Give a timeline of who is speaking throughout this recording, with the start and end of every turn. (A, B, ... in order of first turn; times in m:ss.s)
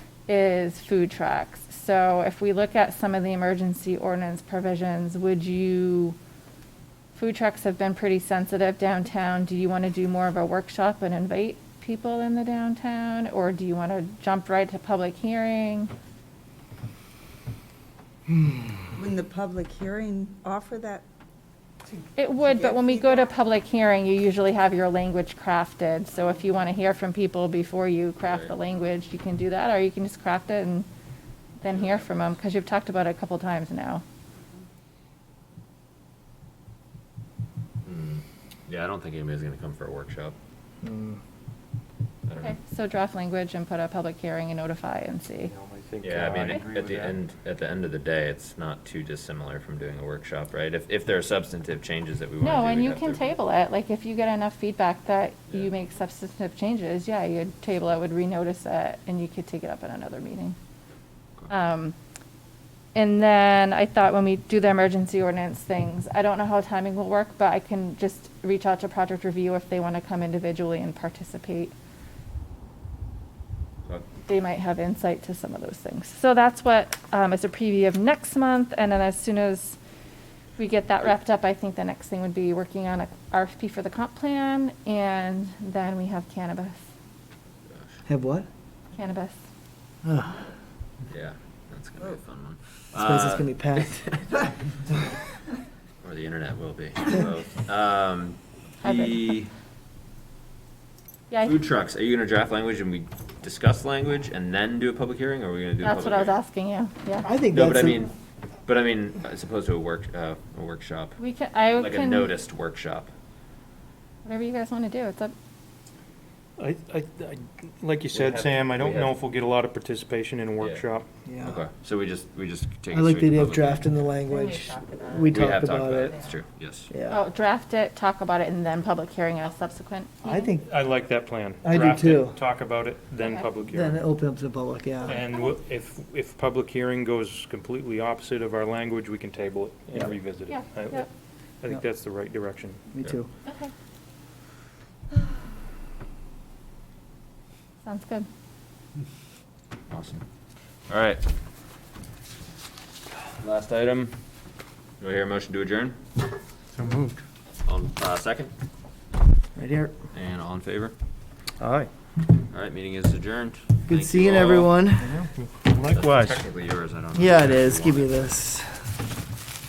0:00.3-0:06.2 A
0:07.1-0:15.9 A
0:19.0-0:21.0 B
0:21.9-0:23.3 B
0:22.2-0:30.9 A
0:28.2-0:28.5 C
0:31.6-0:34.0 A
0:31.7-0:32.2 C
0:37.8-0:40.4 C
0:40.8-0:41.2 D
0:42.3-0:42.6 C
0:42.4-0:45.5 A
0:45.5-0:47.2 E
0:46.0-0:53.2 C
0:52.4-1:00.6 A
1:01.5-1:02.0 A
1:03.0-1:11.7 A
1:14.3-1:19.8 A
1:20.6-1:26.8 A
1:28.1-1:28.5 D
1:28.9-1:29.4 A
1:30.0-1:30.4 D
1:31.1-1:34.5 C
1:32.9-1:34.2 D
1:36.0-1:39.5 C
1:38.8-1:39.3 A
1:41.4-1:46.4 C
1:45.8-1:47.3 A
1:47.2-1:48.1 D
1:47.5-1:48.1 C
1:48.7-1:51.2 C
1:51.2-1:52.3 A
1:51.7-1:53.1 C
1:54.2-1:55.3 A
1:56.6-2:01.1 E
1:58.1-1:59.1 C
2:01.3-2:01.6 D
2:01.4-2:03.9 C
2:02.9-2:06.2 D
2:04.3-2:05.3 A
2:05.3-2:06.9 C
2:06.9-2:07.2 D
2:07.1-2:10.5 A
2:10.2-2:10.7 D
2:10.6-2:14.0 E
2:11.6-2:12.4 D
2:13.2-2:13.5 A
2:13.6-2:15.2 D
2:15.0-2:21.1 E
2:20.5-2:21.1 A
2:21.6-2:22.8 E
2:22.9-2:23.3 D
2:23.5-2:23.7 A
2:27.8-2:28.3 A
2:29.9-2:30.2 C
2:30.9-2:31.2 C
2:33.4-2:34.2 C
2:35.0-2:36.0 C
2:36.8-2:37.2 E
2:37.6-2:38.5 C
2:39.6-2:39.9 D
2:40.1-2:40.9 C
2:41.6-2:41.9 E
2:42.4-2:44.8 C
2:43.9-2:45.2 D
2:45.0-2:46.4 E
2:45.9-2:48.1 C
2:47.2-2:49.0 D